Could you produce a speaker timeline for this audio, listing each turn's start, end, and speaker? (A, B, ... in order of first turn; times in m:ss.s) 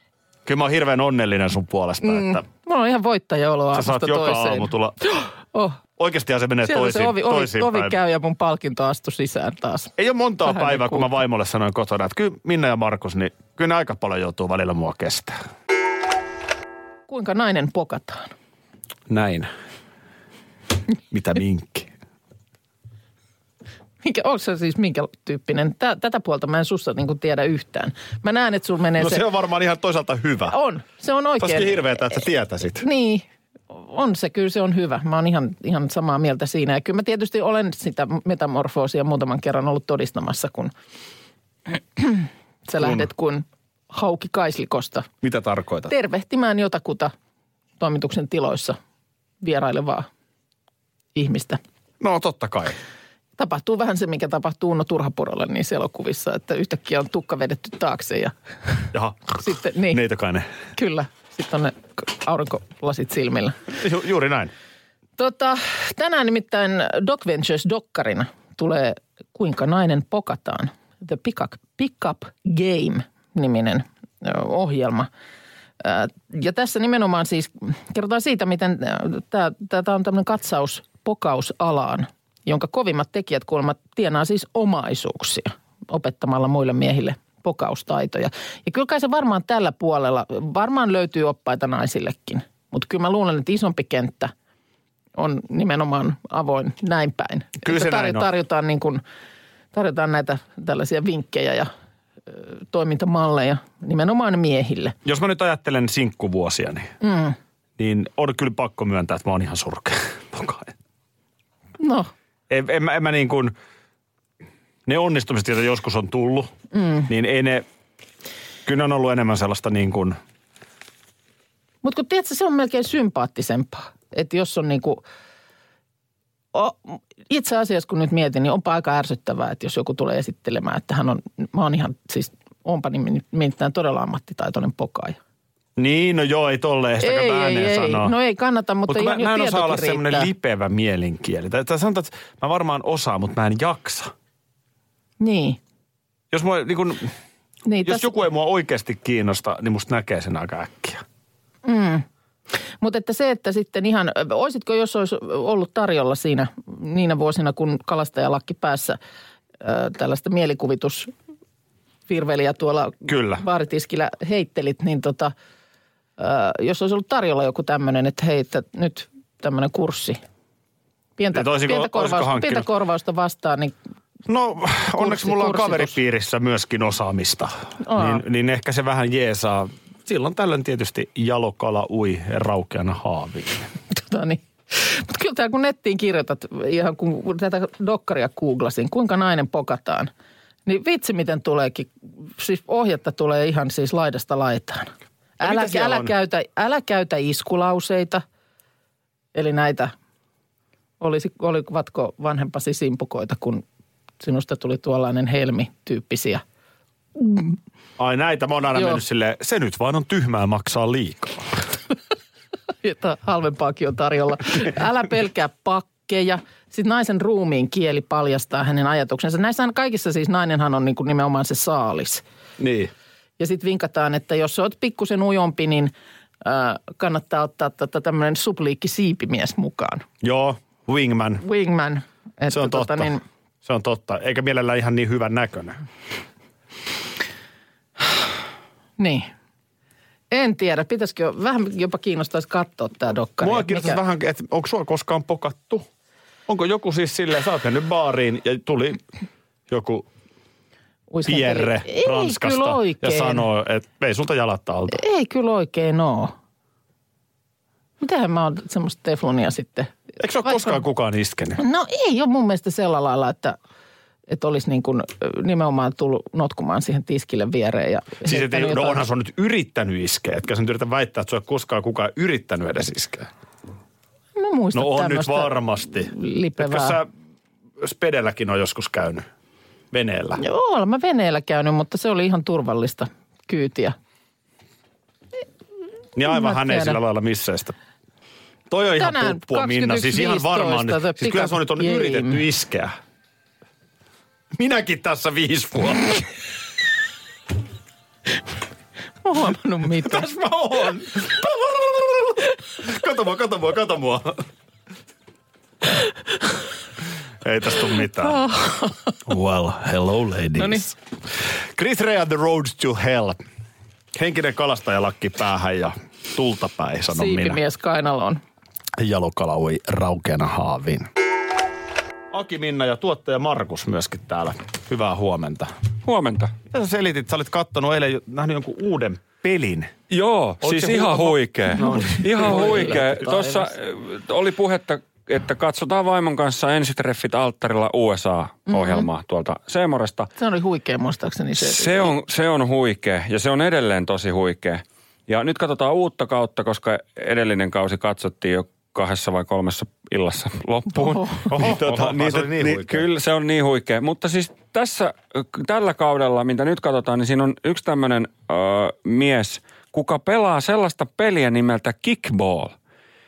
0:00.5-0:02.4 A
0:02.0-0:05.8 B
0:03.7-0:05.0 A
0:06.0-0:08.0 A
0:06.6-0:11.1 B
0:10.0-0:15.4 A
0:17.1-0:18.3 B
0:19.1-0:19.5 A
0:21.1-0:21.9 A
0:24.0-0:29.3 B
0:29.0-0:30.6 A
0:30.5-0:32.0 B
0:31.4-0:32.9 A
0:32.8-0:40.7 B
0:41.7-0:45.1 B
0:42.8-0:43.1 A
0:45.2-0:45.9 A
0:45.9-0:47.1 B
0:47.8-0:48.8 B
0:49.4-0:50.1 B
0:51.2-0:51.6 B
0:52.0-0:52.8 A
0:53.4-1:00.0 B
0:58.9-1:00.5 A
1:00.8-1:03.6 B
1:03.7-1:04.5 A
1:05.2-1:15.1 B
1:15.8-1:34.3 B
1:35.2-1:39.0 B
1:37.6-1:38.3 A
1:39.7-1:41.7 B
1:42.3-1:45.0 B
1:45.0-1:46.9 A
1:47.0-1:47.4 B
1:47.8-1:50.7 A
1:51.8-1:52.1 B
1:52.5-1:53.5 A
1:54.9-1:56.5 A
1:56.7-1:57.1 B
1:57.1-1:57.6 A
1:58.7-2:00.2 A
2:01.8-2:05.0 B
2:06.5-2:15.2 B
2:15.8-2:18.1 A
2:17.0-2:20.3 B
2:18.9-2:24.1 A
2:25.2-2:25.6 B
2:26.3-2:27.1 A
2:27.7-2:28.1 B
2:27.8-2:31.0 A
2:31.6-2:32.0 B
2:32.8-2:39.0 B
2:39.6-2:41.1 B
2:42.1-2:45.3 B
2:43.0-2:43.4 A
2:46.2-2:50.2 B
2:51.2-2:53.8 B
2:51.3-2:52.7 A
2:54.3-3:03.7 A
2:55.0-2:56.0 B
2:57.8-2:58.2 B
3:03.9-3:10.1 B
3:10.7-3:18.2 B
3:15.4-3:16.1 A
3:19.4-3:19.9 B
3:21.0-3:23.6 B
3:24.2-3:26.4 B
3:27.2-3:27.6 B
3:28.0-3:31.6 A
3:28.8-3:29.0 B
3:32.8-3:42.2 B
3:42.6-3:42.9 A
3:43.4-3:45.9 B
3:46.4-3:50.0 B
3:50.2-3:51.4 A
3:51.4-3:53.2 B
3:52.5-3:53.1 A
3:53.6-3:55.8 A
3:59.0-3:59.3 B
4:00.3-4:04.0 B
4:03.4-4:05.9 A
4:06.5-4:09.0 A
4:09.7-4:10.1 A
4:11.1-4:13.5 B
4:11.3-4:15.0 A
4:14.9-4:16.4 B
4:18.0-4:20.8 B
4:20.2-4:21.6 A
4:21.6-4:23.6 B
4:24.3-4:29.0 B
4:28.2-4:33.3 A
4:34.4-4:37.0 B
4:34.7-4:37.1 A
4:37.8-4:39.3 A
4:39.9-4:40.4 A
4:40.4-4:44.0 B
4:46.2-4:47.8 A
4:46.2-4:47.0 B
4:48.7-4:52.9 A
4:49.0-4:52.4 B
4:54.6-4:56.2 A
4:59.2-5:00.3 B
5:00.0-5:04.5 A
5:07.4-5:08.4 A
5:08.2-5:09.2 B
5:09.3-5:11.0 A
5:10.6-5:10.8 B
5:11.8-5:13.4 A
5:14.2-5:17.6 A
5:17.1-5:18.4 B
5:19.0-5:21.1 A
5:22.3-5:25.7 A
5:26.0-5:26.6 C
5:26.7-5:30.0 A
5:30.1-5:40.3 C
5:30.6-5:33.5 A
5:31.8-5:33.7 B
5:38.7-5:39.1 B
5:40.4-5:42.2 B
5:41.6-6:02.8 C
5:51.0-5:51.5 B
5:51.5-5:53.1 A